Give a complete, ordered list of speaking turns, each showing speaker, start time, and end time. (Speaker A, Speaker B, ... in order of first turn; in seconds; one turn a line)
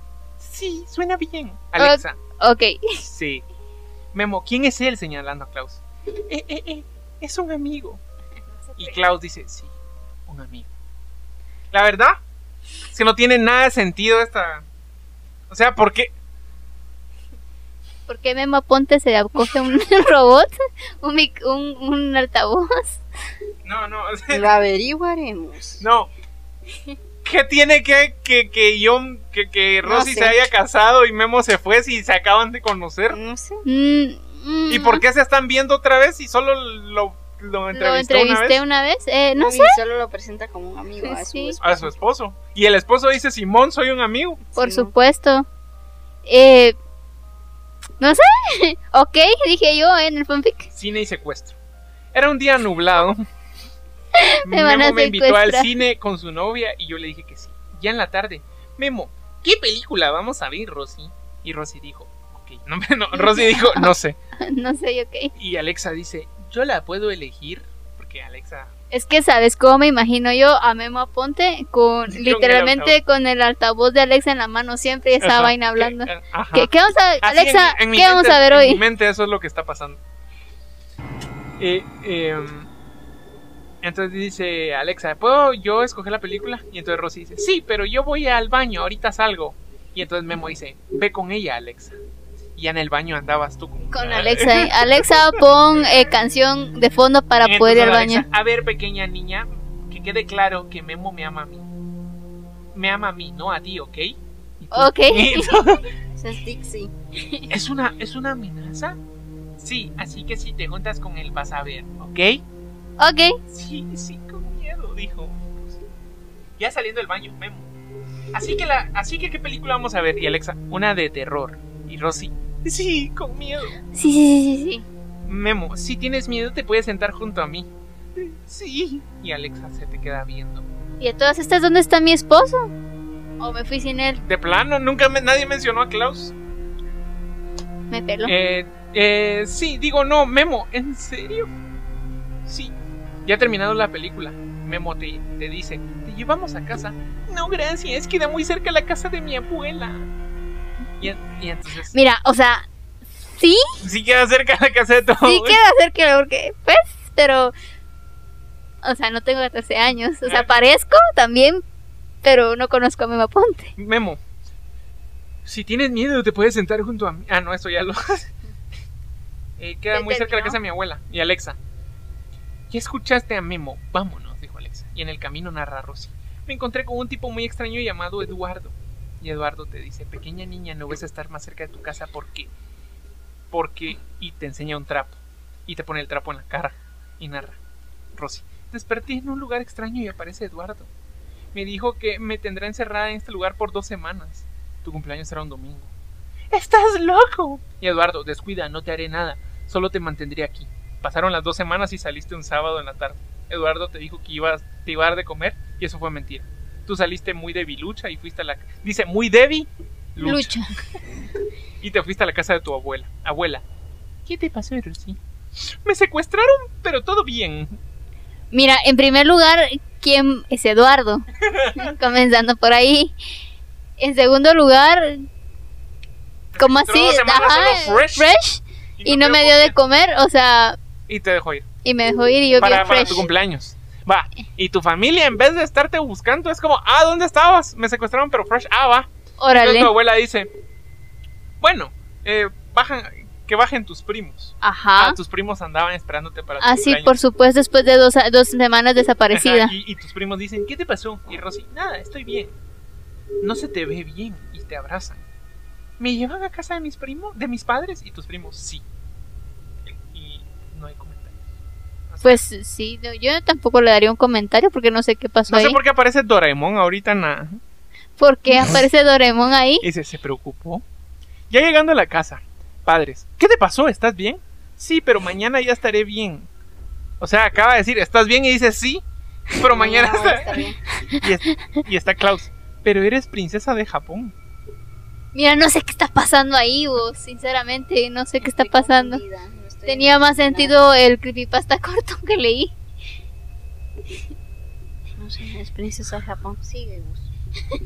Speaker A: 0.4-2.2
Speaker B: 1.8-3.0
Speaker A: 3.0-3.4
Speaker A: 4.1-8.0
Speaker A: 8.8-9.7
Speaker A: 10.3-10.7
Speaker A: 11.7-12.2
Speaker A: 12.9-14.6
Speaker A: 15.5-16.1
Speaker B: 18.1-23.0
Speaker A: 23.6-24.5
Speaker C: 24.3-25.8
Speaker A: 25.8-26.1
Speaker A: 27.2-33.2
Speaker C: 29.8-30.4
Speaker C: 33.1-33.6
Speaker B: 33.6-35.0
Speaker A: 34.7-38.6
Speaker B: 37.7-39.8
Speaker C: 39.4-41.9
Speaker B: 41.0-41.6
Speaker A: 41.6-44.5
Speaker C: 44.5-44.9
Speaker B: 44.5-45.5
Speaker B: 46.2-46.8
Speaker B: 48.0-50.7
Speaker A: 50.7-51.5
Speaker A: 52.1-53.3
Speaker B: 54.1-55.7
Speaker A: 54.4-64.2
Speaker B: 63.1-65.3
Speaker A: 65.3-68.7
Speaker B: 68.9-78.8
Speaker A: 72.1-73.0
Speaker A: 75.2-80.0
Speaker A: 81.6-82.7
Speaker A: 83.8-92.0
Speaker A: 92.5-95.2
Speaker B: 93.9-98.2
Speaker A: 97.4-101.7
Speaker A: 102.7-105.8
Speaker B: 104.7-105.5
Speaker C: 106.2-106.9
Speaker B: 107.2-107.5
Speaker A: 107.5-109.0
Speaker A: 109.6-112.4
Speaker B: 113.0-113.4
Speaker A: 113.5-115.8
Speaker A: 116.6-117.7
Speaker A: 118.3-123.8
Speaker B: 123.9-124.8
Speaker A: 125.3-130.6
Speaker B: 131.0-132.7
Speaker B: 133.4-134.2
Speaker A: 134.2-136.3
Speaker B: 137.9-138.3
Speaker A: 138.2-141.5
Speaker A: 142.4-142.7
Speaker A: 143.2-150.1
Speaker A: 151.0-151.9
Speaker B: 151.9-152.7
Speaker B: 153.2-153.7
Speaker A: 153.8-155.6
Speaker B: 155.2-157.5
Speaker B: 158.8-161.6
Speaker A: 160.2-160.5
Speaker B: 162.2-163.7
Speaker A: 163.8-164.2
Speaker A: 165.4-168.3
Speaker A: 169.6-171.6
Speaker B: 169.9-170.6
Speaker A: 172.7-182.5
Speaker A: 183.5-187.6
Speaker A: 188.1-190.9
Speaker A: 191.5-195.9
Speaker A: 196.5-210.6
Speaker B: 210.2-210.7
Speaker A: 211.8-213.6
Speaker A: 214.2-215.2
Speaker A: 215.7-217.8
Speaker B: 218.5-223.1
Speaker A: 221.5-221.9
Speaker B: 224.0-225.3
Speaker A: 226.5-228.3
Speaker B: 226.6-230.8
Speaker A: 229.0-229.7
Speaker A: 231.1-231.6
Speaker B: 231.8-233.3
Speaker A: 232.6-240.5
Speaker B: 239.4-239.9
Speaker A: 241.6-247.1
Speaker B: 244.6-245.2
Speaker B: 246.6-249.7
Speaker A: 249.3-252.5
Speaker A: 253.4-255.2
Speaker A: 256.0-258.8
Speaker A: 259.8-261.4
Speaker A: 262.1-262.4
Speaker B: 262.2-265.8
Speaker A: 265.5-267.6
Speaker B: 268.2-269.8
Speaker A: 268.5-268.8
Speaker A: 269.8-270.8
Speaker A: 271.5-276.5
Speaker A: 277.2-279.0
Speaker A: 279.5-280.6
Speaker C: 279.7-280.8
Speaker A: 281.2-284.3
Speaker B: 285.3-289.2
Speaker C: 288.4-290.7
Speaker B: 289.9-292.7
Speaker C: 295.2-297.3